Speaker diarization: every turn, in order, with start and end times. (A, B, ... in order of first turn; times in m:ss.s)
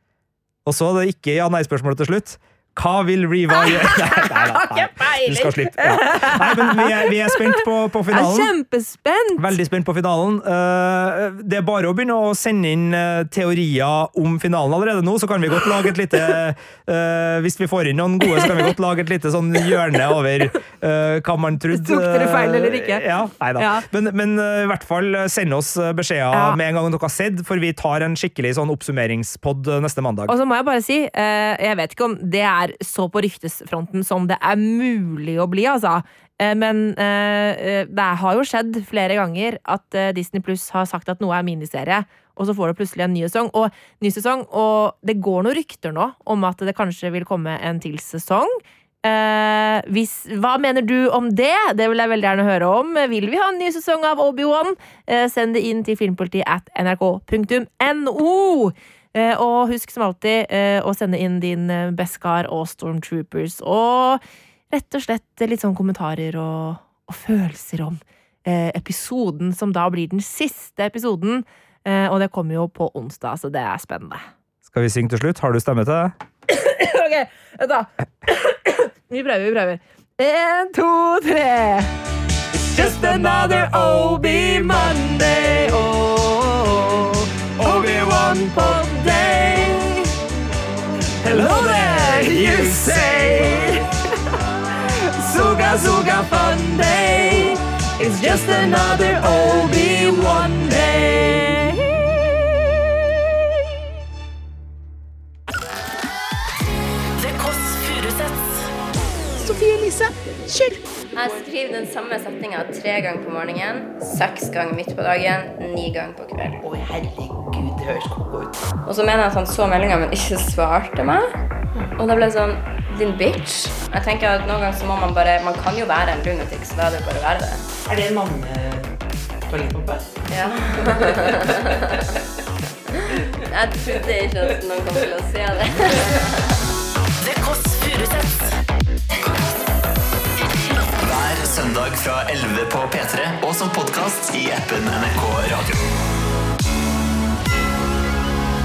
0:00.6-0:08.5 A
0:03.5-0:09.6 B
0:09.4-0:30.4 A
0:21.7-0:23.8 B
0:26.3-0:26.6 B
0:30.3-1:14.2 B
1:14.6-1:16.1 A
1:16.5-1:21.9 B
1:22.6-1:24.8 A
1:22.7-1:30.1 B
1:27.6-1:27.9 A
1:31.2-1:33.8 A
1:31.2-1:34.0 B
1:34.8-1:42.2 B
1:47.2-1:48.7 C
1:49.4-1:50.8 B
1:51.1-1:56.6 D
1:56.6-1:58.7 C
1:58.8-2:01.4 D
2:02.0-2:07.6 D
2:07.8-2:11.6 C
2:10.3-2:11.5 D
2:13.5-2:16.4 D
2:17.2-2:18.6 C
2:21.0-2:25.8 E